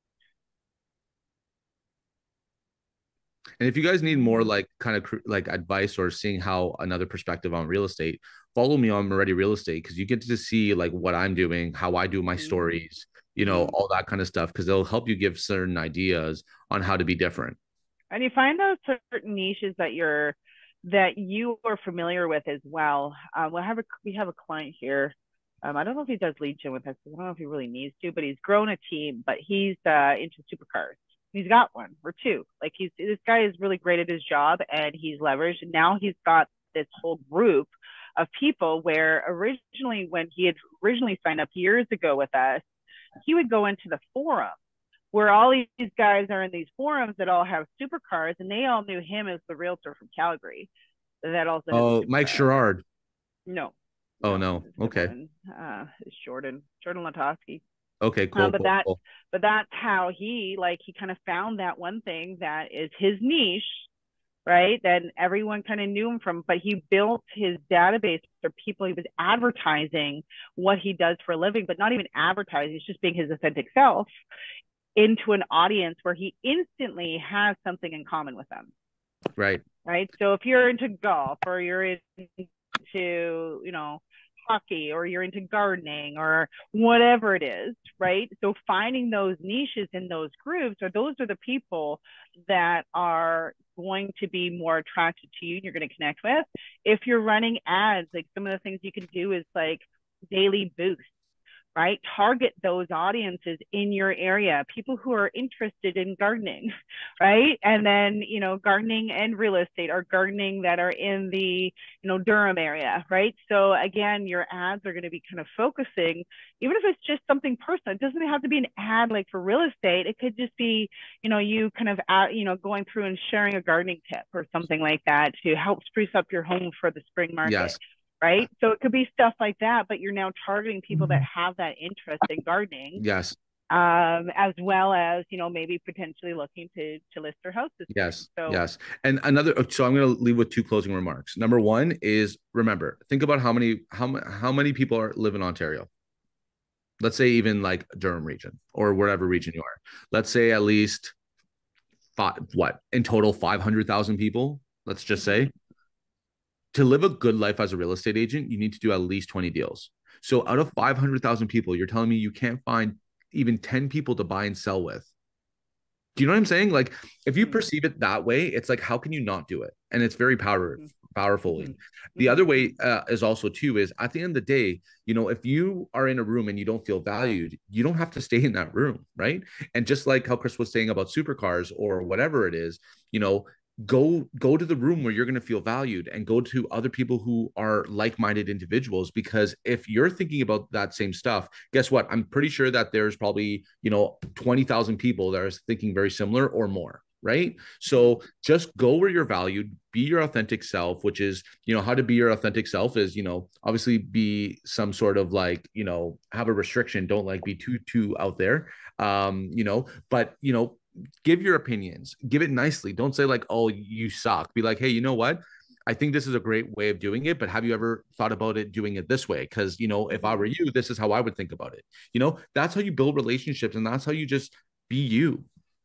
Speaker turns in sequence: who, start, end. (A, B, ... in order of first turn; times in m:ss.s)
0:03.6-0:17.6 A
0:13.4-0:13.8 B
0:18.1-0:42.6 B
0:43.2-0:44.6 B
0:45.1-0:50.7 B
0:51.2-0:52.5 B
0:51.7-0:52.8 A
0:53.5-0:57.6 B
0:54.2-0:55.1 A
0:58.0-0:59.0 A
0:58.4-1:03.9 B
1:04.5-1:14.1 B
1:15.0-1:18.7 B
1:19.4-1:19.6 A
1:19.8-1:41.1 B
1:41.8-2:13.0 B
2:07.4-2:07.8 A
2:13.0-2:13.4 A
2:13.7-2:18.6 B
2:17.9-2:25.9 A
2:27.0-2:31.1 A
2:32.2-2:35.5 A
2:36.7-2:45.1 A
2:46.2-3:45.5 A
2:51.6-2:52.5 B
3:40.1-3:40.5 B